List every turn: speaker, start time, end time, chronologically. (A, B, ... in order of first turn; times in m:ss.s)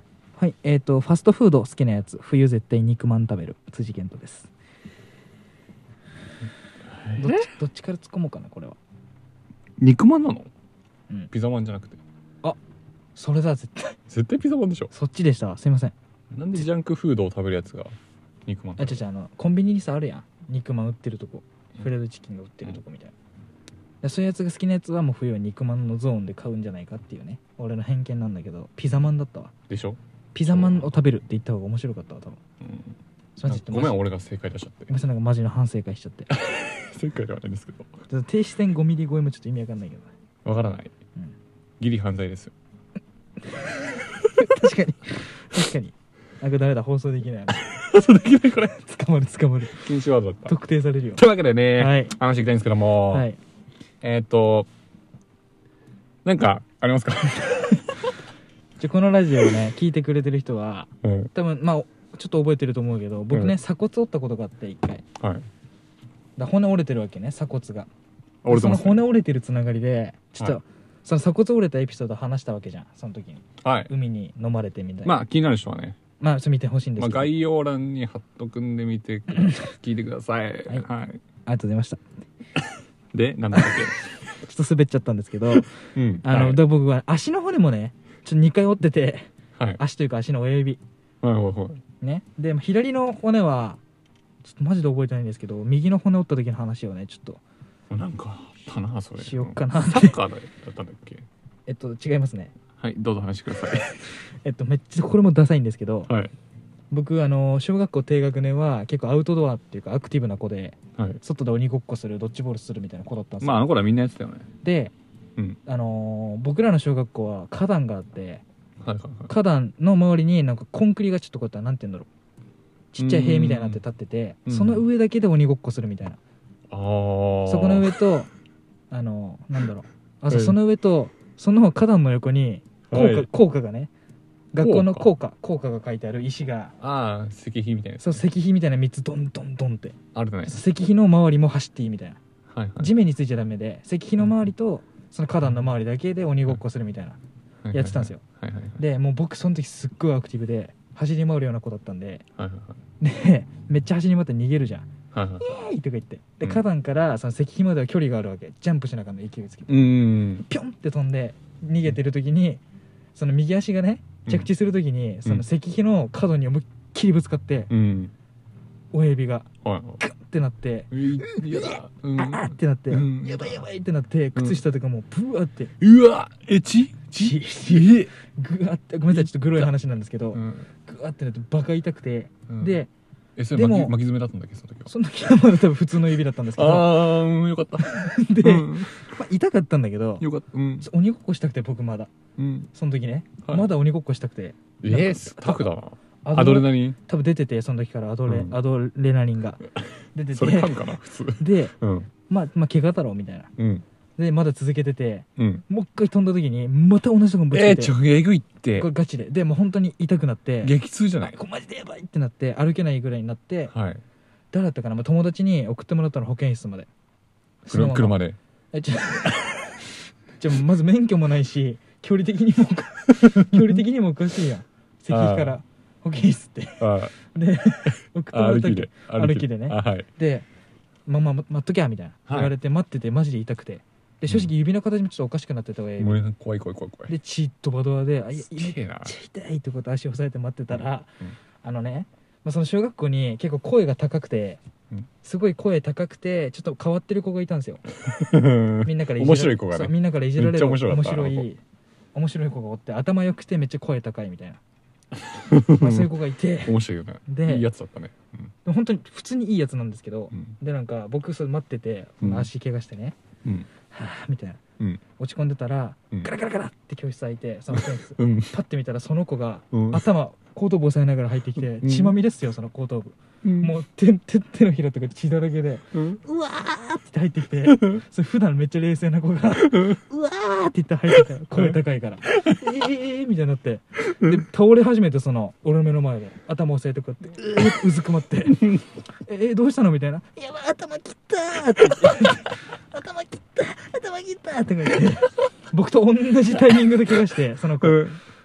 0:00.4-0:04.5 A
0:07.1-0:07.5 B
0:07.1-0:08.8 A
0:09.8-0:10.5 B
0:11.3-0:12.0 B
0:13.1-0:14.0 A
0:14.1-0:14.9 B
0:14.9-0:16.0 A
0:16.3-0:19.0 B
0:18.8-0:23.1 A
0:24.0-0:29.6 A
0:29.7-0:30.9 B
0:30.3-0:32.4 A
0:32.6-0:32.9 B
0:33.4-0:34.0 A
0:33.5-0:34.9 B
0:34.9-0:36.3 A
0:36.3-0:37.9 B
0:38.1-0:40.1 A
0:40.4-0:40.9 B
0:41.8-0:42.5 B
0:44.3-0:47.7 A
0:47.7-0:48.8 B
0:48.6-0:49.9 A
0:49.8-0:50.6 B
0:50.4-0:52.2 A
0:51.2-0:53.3 B
0:53.0-0:53.4 A
0:54.0-0:54.7 B
0:56.2-0:57.8 B
0:58.8-1:05.0 A
1:01.0-1:01.3 B
1:05.2-1:05.5 B
1:06.4-1:07.9 A
1:08.4-1:09.1 B
1:08.5-1:15.2 A
1:13.6-1:13.9 B
1:15.0-1:16.0 B
1:16.2-1:17.3 A
1:17.0-1:21.2 B
1:21.5-1:22.0 A
1:23.1-1:24.0 B
1:23.5-1:30.8 A
1:26.0-1:26.6 B
1:31.2-1:31.8 B
1:31.9-1:33.8 A
1:34.4-1:37.4 A
1:37.9-1:41.3 B
1:39.2-1:40.2 A
1:41.7-1:42.6 A
1:42.8-1:44.0 B
1:44.1-1:46.1 A
1:46.1-1:46.3 B
1:46.9-1:53.8 A
1:53.4-1:54.5 B
1:54.6-1:54.9 A
1:55.7-1:58.4 A
1:58.8-1:59.3 B
1:59.3-2:02.1 A
2:02.9-2:06.2 A
2:03.0-2:03.8 B
2:04.4-2:04.8 B
2:06.7-2:08.0 B
2:07.4-2:08.3 A
2:08.9-2:13.9 A
2:10.3-2:10.6 B
2:12.9-2:13.3 B
2:14.5-2:16.8 A
2:14.6-2:15.1 B
2:16.8-2:18.2 B
2:18.0-2:22.2 A
2:20.1-2:20.6 B
2:22.5-2:22.9 B
2:22.8-2:27.2 A
2:27.6-2:28.8 B
2:27.7-2:28.2 A
2:28.8-2:32.2 A
2:32.4-2:32.8 B
2:33.0-2:34.9 A
2:35.1-2:35.5 B
2:35.4-2:42.6 A
2:39.7-2:40.4 B
2:43.1-2:47.7 A
2:47.7-2:48.1 B
2:48.9-2:49.5 A
2:49.6-2:50.0 B
2:50.0-2:55.7 A
2:50.9-2:53.7 B
2:54.3-2:54.6 B
2:55.8-2:58.1 B
2:57.1-3:02.9 A
2:59.1-2:59.7 B
3:00.3-3:00.7 B
3:02.5-3:02.7 B
3:03.4-3:04.9 B
3:03.5-3:04.0 A
3:04.9-3:10.2 A
3:06.5-3:09.0 B
3:10.2-3:10.9 B
3:10.8-3:12.1 A
3:12.4-3:12.7 B
3:12.7-3:15.7 A
3:14.8-3:17.0 B
3:16.2-3:19.6 A
3:18.3-3:18.6 B
3:20.1-3:20.8 A
3:20.3-3:22.1 B
3:21.4-3:23.5 A
3:23.6-3:23.8 B
3:24.2-3:28.0 A
3:25.4-3:25.6 B
3:27.5-3:28.9 B
3:28.8-3:33.7 A
3:30.6-3:31.4 B
3:33.7-3:34.0 B
3:34.5-3:36.9 A
3:37.6-3:39.8 A
3:37.7-3:38.4 B
3:40.4-3:50.4 A
3:43.3-3:43.6 B
3:45.1-3:45.6 B
3:46.8-3:47.2 B
3:48.3-3:50.1 B
3:51.0-3:56.2 A
3:52.3-3:52.5 B
3:56.0-3:57.1 B
3:57.1-4:01.1 A
3:58.3-3:59.2 B
4:01.6-4:04.6 A
4:05.2-4:07.8 A
4:08.1-4:11.5 B
4:08.8-4:11.6 A
4:12.2-4:14.6 A
4:15.2-4:18.5 B
4:15.8-4:17.7 A
4:18.6-4:23.2 A
4:20.3-4:20.6 B
4:22.2-4:22.5 B
4:23.4-4:23.7 B
4:23.8-4:24.6 A
4:25.1-4:48.7 A
4:27.7-4:28.6 B
4:29.7-4:30.0 B
4:31.6-4:32.1 B
4:33.4-4:33.7 B
4:35.9-4:36.2 B
4:37.7-4:38.0 B
4:39.7-4:40.0 B
4:49.2-4:58.0 A
4:57.8-4:58.2 B